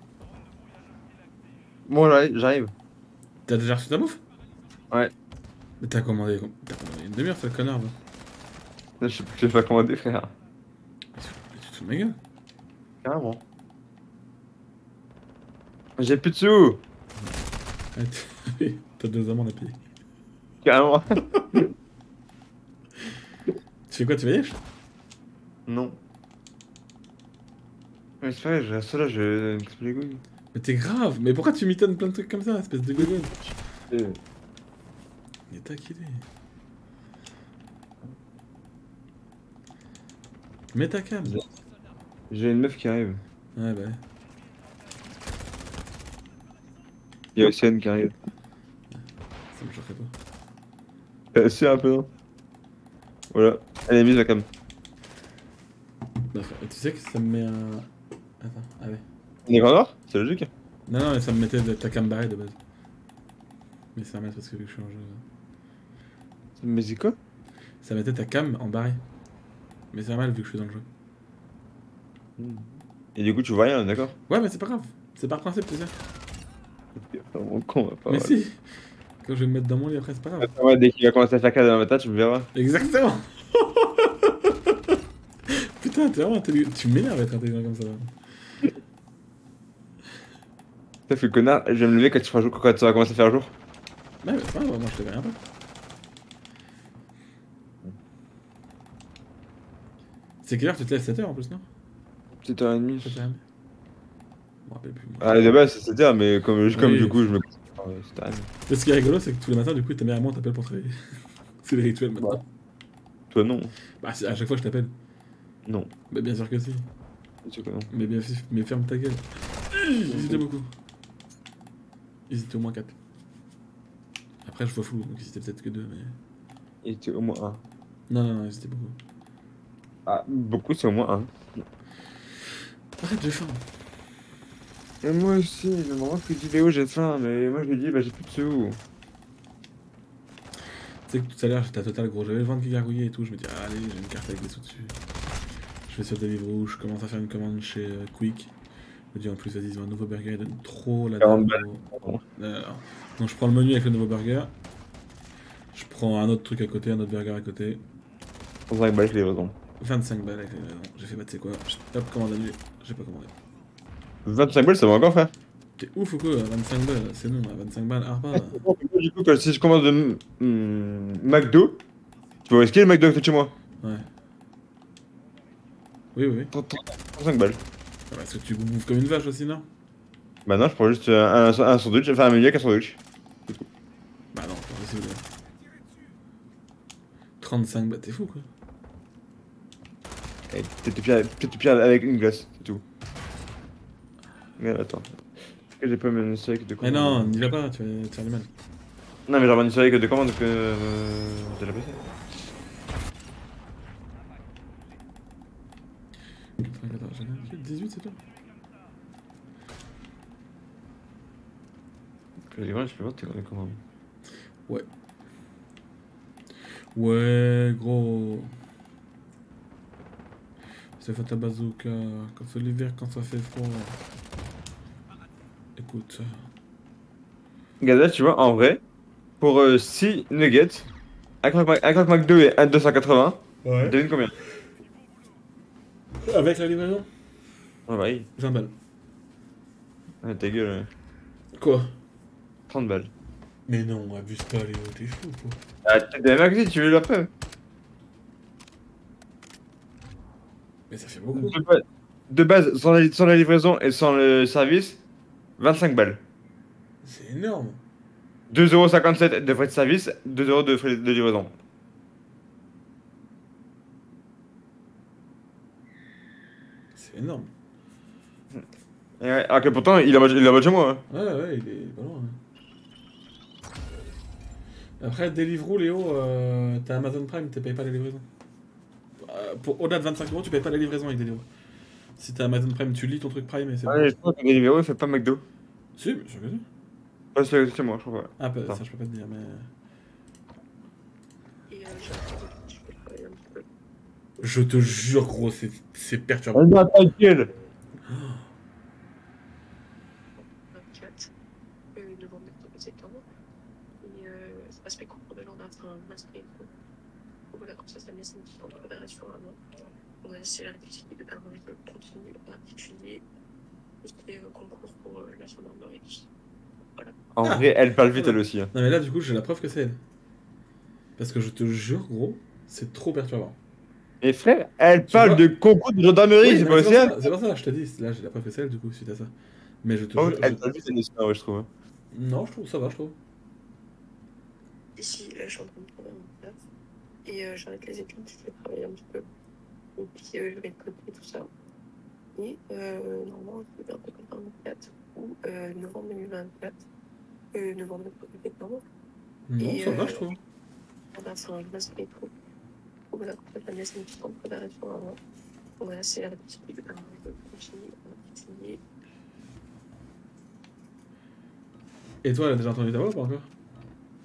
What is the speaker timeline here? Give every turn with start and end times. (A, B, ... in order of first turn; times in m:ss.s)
0:01.9-0:02.7 A
0:03.5-0:04.2 B
0:05.8-0:08.0 B
0:09.0-0:10.3 A
0:11.2-0:12.2 B
0:13.0-0:13.4 A
0:16.0-0:16.8 A
0:18.0-0:19.8 B
0:20.6-0:21.7 A
0:23.9-0:24.6 B
0:25.7-0:26.0 A
0:28.2-0:30.2 A
0:30.5-0:33.3 B
0:33.0-0:34.2 A
0:35.5-0:36.3 B
0:40.7-0:41.4 B
0:42.3-0:43.2 A
0:43.6-0:44.0 B
0:47.4-0:48.1 A
0:48.9-0:50.2 B
0:51.3-0:52.1 A
0:53.3-0:54.5 A
0:56.3-0:59.0 B
0:59.5-1:00.5 A
1:00.9-1:02.6 B
1:04.0-1:05.2 B
1:06.6-1:07.2 A
1:07.8-1:09.0 B
1:09.9-1:10.9 B
1:12.4-1:14.2 A
1:14.3-1:16.0 B
1:17.0-1:18.4 A
1:18.1-1:18.6 B
1:19.2-1:20.5 B
1:20.4-1:22.5 A
1:22.5-1:25.0 B
1:25.5-1:28.2 B
1:31.1-1:33.5 A
1:34.2-1:35.4 B
1:40.4-1:41.7 B
1:42.4-1:43.2 A
1:43.0-1:43.4 B
1:44.7-1:45.5 B
1:45.2-1:48.5 A
1:46.7-1:47.2 B
1:48.7-1:51.0 B
1:51.6-1:52.4 B
1:53.3-1:53.7 A
1:54.0-1:54.9 B
1:55.7-1:55.9 A
1:56.1-1:56.9 B
1:57.4-1:57.9 A
1:57.9-2:00.7 B
2:00.1-2:00.4 A
2:02.3-2:03.0 B
2:04.4-2:06.2 B
2:06.8-2:07.6 A
2:08.1-2:09.0 B
2:10.1-2:11.4 A
2:13.0-2:13.7 B
2:15.0-2:18.8 A
2:21.1-2:25.0 B
2:25.9-2:28.5 B
2:29.1-2:34.5 B
2:31.2-2:32.2 A
2:35.7-2:37.8 B
2:38.7-2:39.6 A
2:39.8-2:43.3 B
2:44.2-2:45.3 A
2:45.8-2:48.6 B
2:48.4-2:51.8 A
2:52.5-2:53.5 A
2:56.2-2:56.5 B
2:56.5-2:57.6 A
2:58.1-2:59.7 B
3:00.4-3:03.0 A
3:04.3-3:05.2 B
3:07.4-3:08.5 B
3:10.5-3:12.8 A
3:14.6-3:17.5 A
3:16.8-3:18.5 B
3:19.3-3:22.1 A
3:26.6-3:28.2 B
3:32.5-3:33.8 A
3:37.0-3:38.5 B
3:41.0-3:44.0 B
3:45.8-3:46.5 B
3:47.8-3:48.8 A
3:49.4-3:50.9 A
3:51.4-3:54.4 A
3:53.6-3:54.1 B
3:56.2-3:57.1 B
3:57.9-3:58.3 A
3:58.4-3:58.7 B
4:00.2-4:00.9 A
4:01.6-4:02.0 B
4:02.7-4:03.1 A
4:03.7-4:05.6 B
4:05.8-4:07.3 A
4:10.9-4:11.6 B
4:11.3-4:15.0 A
4:15.6-4:16.2 A
4:17.0-4:17.8 B
4:18.5-4:21.6 A
4:27.0-4:27.5 B
4:29.2-4:31.0 A
4:31.1-4:32.4 B
4:35.0-4:38.2 B
4:39.2-4:41.5 B
4:42.2-4:44.1 B
4:43.9-4:45.4 A
4:46.0-4:46.6 B
4:47.4-4:48.8 A
4:48.4-4:49.7 B
4:51.7-4:53.7 C
4:54.4-4:56.7 B
4:56.5-4:57.5 A
4:58.1-4:58.4 B
5:00.7-5:01.3 C
5:02.0-5:03.3 C
5:04.0-5:06.7 C
5:07.5-5:13.2 C
5:14.0-5:16.3 C
5:17.4-5:18.7 A
5:17.4-5:20.0 B
5:21.2-5:23.6 B
5:24.2-5:27.2 A
5:25.1-5:25.5 B
5:26.4-5:30.6 B
5:30.2-5:31.7 A
5:32.1-5:33.2 B
5:35.0-5:36.6 C
5:37.2-5:39.3 C
5:40.0-5:41.5 C
5:42.4-5:46.8 C
5:47.5-5:48.8 C
5:49.5-5:50.4 B
5:49.6-5:50.3 C
5:51.1-5:52.3 C
5:53.1-5:55.2 C
5:55.8-5:58.8 C
6:02.2-6:03.5 B